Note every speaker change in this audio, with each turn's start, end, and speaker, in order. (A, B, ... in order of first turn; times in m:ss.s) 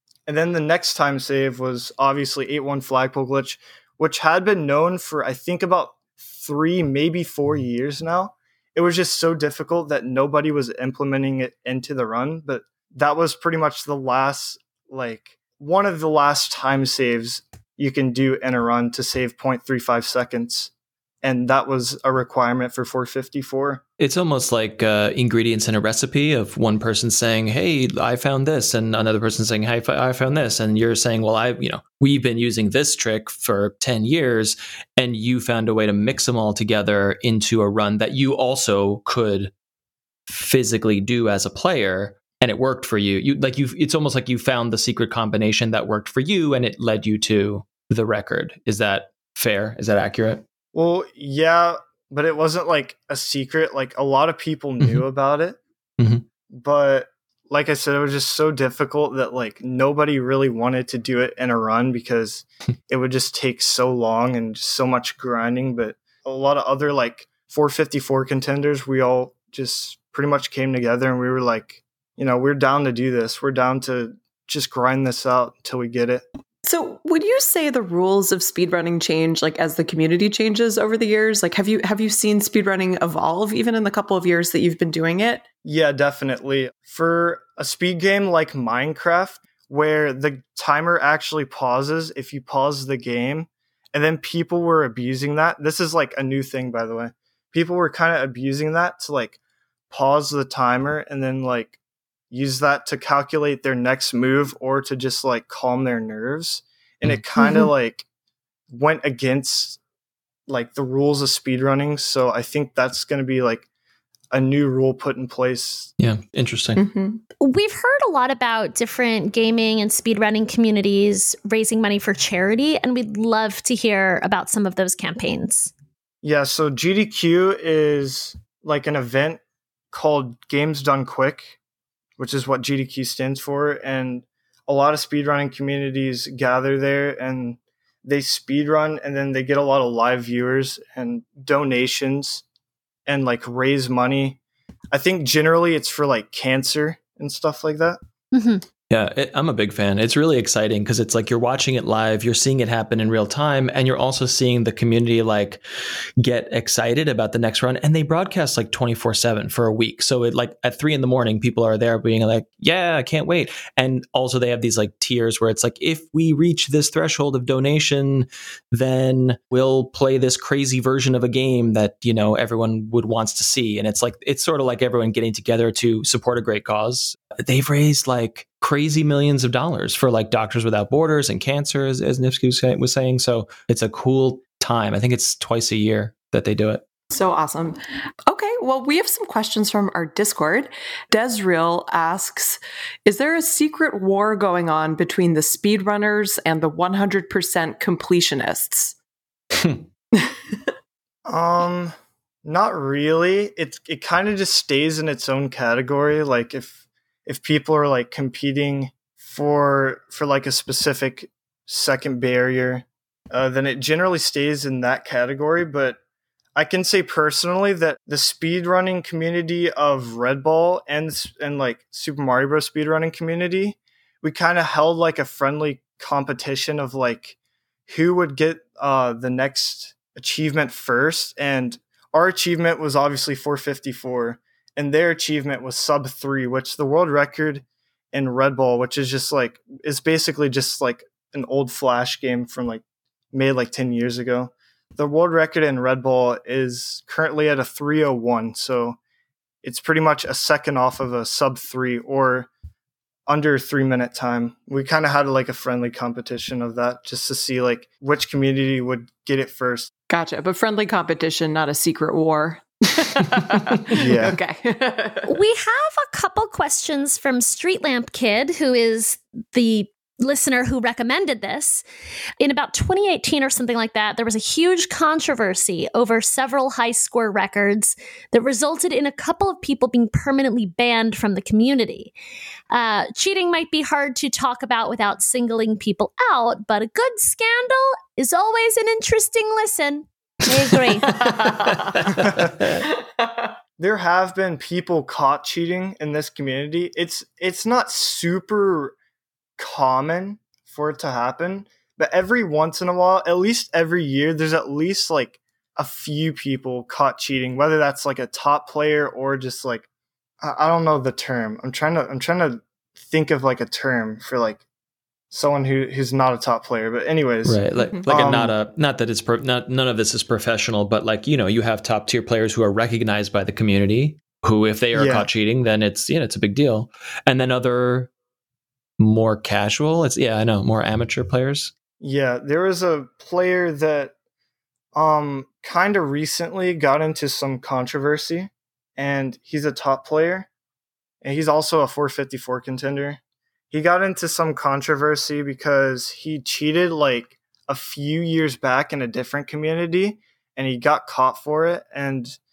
0:00.3-0:23.8 A
0:24.0-0:39.5 B
0:40.3-0:50.4 B
0:50.7-0:55.6 A
0:56.0-0:56.2 B
0:56.5-1:16.2 A
1:16.6-1:25.4 C
1:25.6-1:39.4 A
1:39.9-1:41.8 A
1:42.3-1:48.1 A
1:48.7-1:49.8 A
1:50.5-1:53.7 A
1:54.3-1:55.9 A
1:56.0-1:56.8 B
1:56.8-1:57.2 C
1:57.4-2:05.7 D
2:06.2-2:09.4 A
2:09.9-2:11.6 A
2:12.2-2:22.4 A
2:23.1-2:24.4 A
2:24.9-2:28.0 A
2:28.3-2:28.6 D
2:28.9-2:35.6 B
2:36.2-3:06.8 B
3:07.1-3:19.0 C
3:19.6-3:19.8 B
3:20.1-3:20.7 C
3:21.3-3:36.0 A
3:36.6-4:09.0 A
4:09.6-4:12.5 A
4:13.3-4:19.9 A
4:20.1-4:25.3 C
4:24.0-4:24.4 A
4:25.3-4:31.8 D
4:32.4-4:42.1 D
4:42.7-4:51.2 D
4:51.2-4:52.1 C
4:51.2-4:52.8 B
4:52.2-4:52.5 A
4:52.8-4:53.5 C
4:53.8-4:59.0 A
4:59.6-5:09.9 A
5:10.4-5:14.6 A
5:15.3-5:18.6 A
5:17.4-5:28.1 B
5:24.9-5:25.3 A
5:29.0-5:31.7 B
5:32.0-5:34.1 A
5:34.9-5:40.5 A
5:41.2-5:52.4 A